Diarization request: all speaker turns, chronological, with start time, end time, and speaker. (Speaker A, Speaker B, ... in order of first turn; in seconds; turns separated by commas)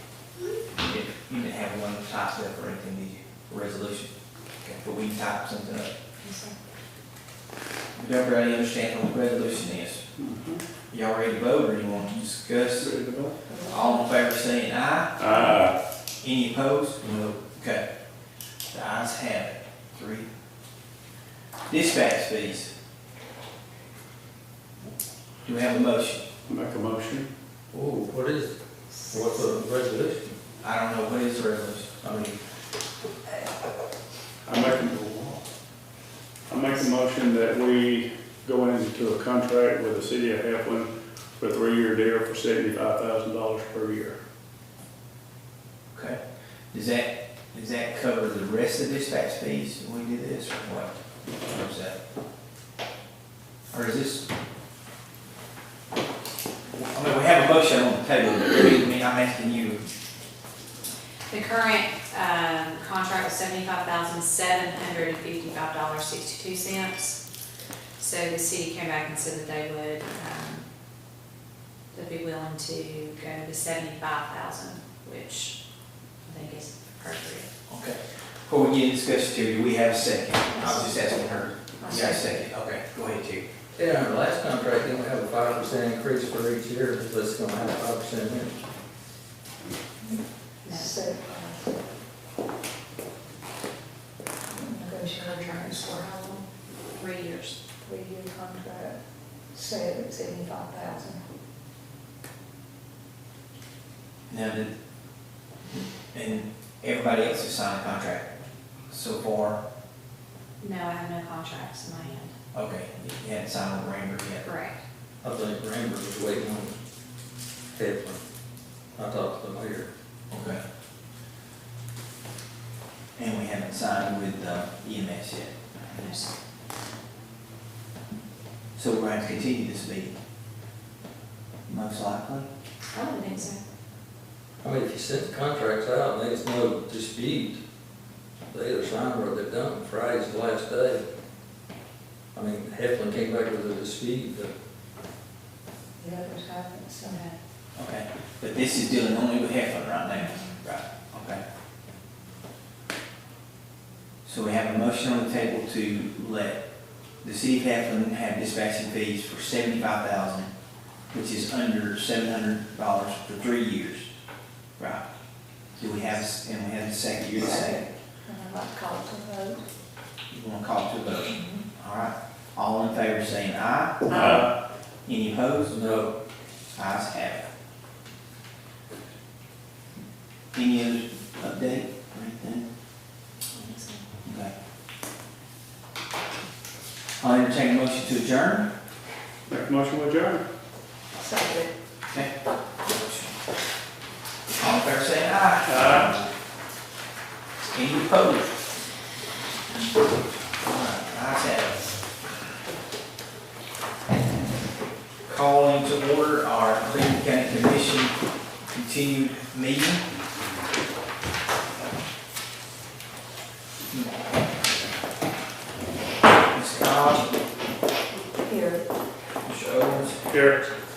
Speaker A: 0.8-4.1, Speaker A: 4.6-5.9, Speaker A: 7.9-10.0, Speaker B: 10.2-10.6, Speaker A: 10.9-12.9, Speaker B: 12.8-13.4, Speaker C: 13.5-14.0, Speaker A: 13.7-15.2, Speaker B: 15.2-15.8, Speaker A: 16.2-17.8, Speaker D: 17.0-17.3, Speaker A: 18.7-20.3, Speaker A: 21.7-22.7, Speaker A: 25.4-26.3, Speaker B: 26.5-27.3, Speaker D: 27.7-28.5, Speaker D: 29.1-30.4, Speaker A: 30.6-31.9, Speaker D: 32.0-32.4, Speaker B: 34.4-35.4, Speaker B: 36.5-44.2, Speaker A: 45.9-46.2, Speaker A: 46.7-52.0, Speaker A: 53.7-54.2, Speaker A: 56.8-59.8, Speaker E: 61.3-67.2, Speaker E: 68.0-70.7, Speaker E: 71.9-75.6, Speaker E: 76.2-77.5, Speaker A: 77.7-83.4, Speaker C: 81.8-82.3, Speaker D: 83.8-88.5, Speaker E: 90.6-91.0, Speaker C: 90.7-91.8, Speaker C: 94.5-96.4, Speaker E: 95.2-96.4, Speaker E: 96.9-97.5, Speaker C: 97.8-99.0, Speaker C: 99.5-101.2, Speaker A: 104.3-104.7, Speaker A: 105.8-108.3, Speaker A: 108.9-109.6, Speaker E: 110.6-112.3, Speaker A: 112.5-114.5, Speaker E: 114.4-114.8, Speaker D: 115.2-116.7, Speaker D: 117.7-118.2, Speaker D: 119.0-119.9, Speaker A: 120.3-120.6, Speaker A: 123.2-125.6, Speaker E: 125.9-126.3, Speaker A: 128.8-130.2, Speaker A: 131.7-132.5, Speaker E: 132.9-133.6, Speaker D: 134.6-137.6, Speaker D: 138.5-141.0, Speaker D: 142.3-144.5, Speaker C: 146.0-147.3, Speaker A: 147.8-151.4, Speaker A: 154.2-156.6, Speaker A: 157.2-160.5, Speaker A: 161.1-164.1, Speaker A: 164.8-165.0, Speaker A: 165.8-167.8, Speaker C: 167.4-169.6, Speaker A: 170.3-174.1, Speaker C: 174.1-174.5, Speaker B: 174.1-174.5, Speaker A: 175.1-175.8, Speaker D: 175.7-176.1, Speaker A: 176.7-177.4, Speaker A: 180.5-182.7, Speaker E: 183.5-184.0, Speaker A: 184.2-184.5, Speaker A: 187.2-188.7, Speaker B: 189.5-190.4, Speaker C: 191.2-191.7, Speaker A: 192.8-193.3, Speaker A: 194.6-196.2, Speaker B: 195.7-196.1, Speaker A: 197.7-198.6, Speaker A: 200.6-201.9, Speaker A: 205.2-208.1, Speaker A: 208.7-210.0, Speaker A: 216.5-217.3, Speaker C: 218.4-218.8, Speaker A: 219.4-220.2, Speaker B: 220.3-220.6